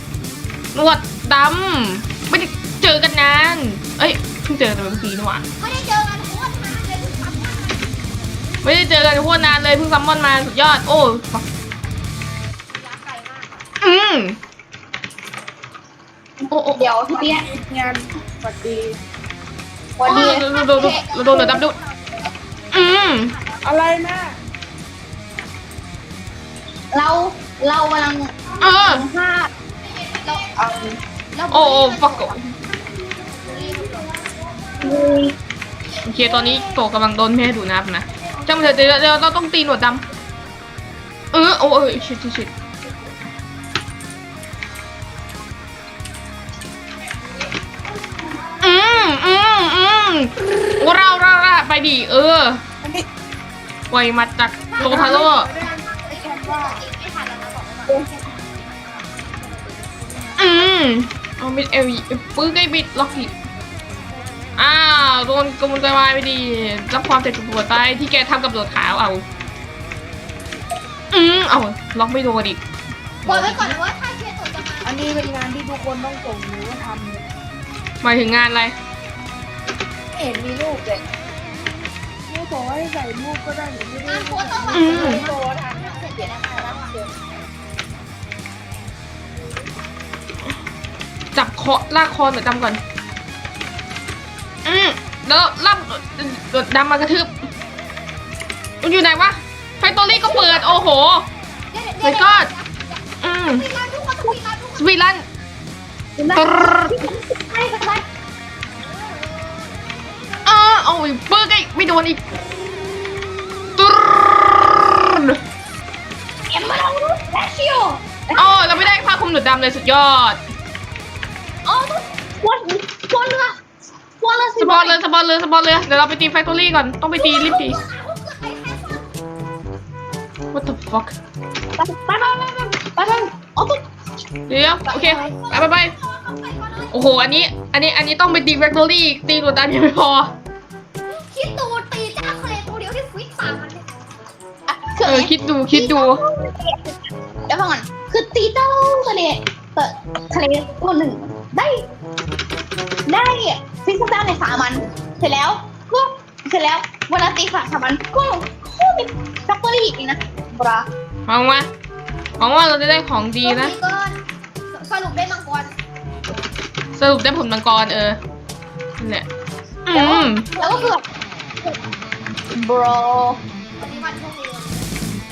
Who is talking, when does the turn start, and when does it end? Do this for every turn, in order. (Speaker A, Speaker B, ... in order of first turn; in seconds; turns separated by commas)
Speaker A: 0.7-5.4, Speaker B: 5.6-8.0, Speaker A: 8.6-11.4, Speaker B: 12.7-13.7, Speaker A: 13.8-14.4, Speaker A: 16.5-16.9, Speaker C: 16.7-17.5, Speaker D: 17.1-19.0, Speaker C: 20.0-21.4, Speaker A: 20.1-21.8, Speaker B: 20.1-23.9, Speaker A: 22.7-23.3, Speaker D: 23.6-24.4, Speaker C: 26.9-29.5, Speaker A: 28.6-29.1, Speaker B: 29.9-30.5, Speaker C: 30.5-31.0, Speaker B: 31.3-34.2, Speaker A: 31.5-32.5, Speaker C: 34.8-35.4, Speaker A: 36.0-40.0, Speaker A: 41.3-42.5, Speaker A: 48.6-52.6, Speaker A: 53.9-55.5, Speaker B: 54.7-60.5, Speaker D: 54.8-56.8, Speaker A: 60.4-63.3, Speaker B: 63.0-64.6, Speaker A: 64.6-69.2, Speaker A: 71.1-72.6, Speaker A: 73.2-73.8, Speaker B: 73.3-75.3, Speaker D: 74.8-77.3, Speaker A: 78.0-78.8, Speaker D: 80.2-81.0, Speaker D: 82.3-85.6, Speaker B: 84.0-87.0, Speaker A: 84.7-85.2, Speaker C: 85.1-85.7, Speaker A: 91.3-92.8, Speaker A: 94.7-97.5, Speaker A: 98.8-101.3, Speaker B: 100.0-100.8, Speaker B: 101.7-105.0, Speaker A: 102.0-102.5, Speaker A: 103.2-103.7, Speaker A: 104.8-105.2, Speaker C: 106.2-108.1, Speaker A: 106.3-107.1, Speaker B: 108.8-110.4, Speaker A: 110.5-112.2, Speaker A: 113.8-115.4, Speaker C: 116.5-118.9, Speaker A: 118.3-120.4, Speaker C: 121.7-123.6, Speaker C: 124.2-125.0, Speaker A: 124.6-127.8, Speaker B: 127.2-129.1, Speaker A: 130.5-131.2, Speaker C: 131.8-133.8, Speaker A: 134.5-135.9, Speaker B: 134.9-137.1, Speaker A: 136.9-140.3, Speaker B: 141.1-143.8, Speaker C: 144.7-151.8, Speaker A: 145.0-146.2, Speaker C: 153.1-160.9, Speaker A: 161.3-161.7, Speaker A: 162.4-163.7, Speaker B: 163.4-165.7, Speaker A: 167.0-168.2, Speaker A: 169.0-169.3, Speaker A: 169.9-170.5, Speaker C: 169.9-171.0, Speaker B: 170.5-171.0, Speaker C: 172.5-173.4, Speaker B: 173.8-174.9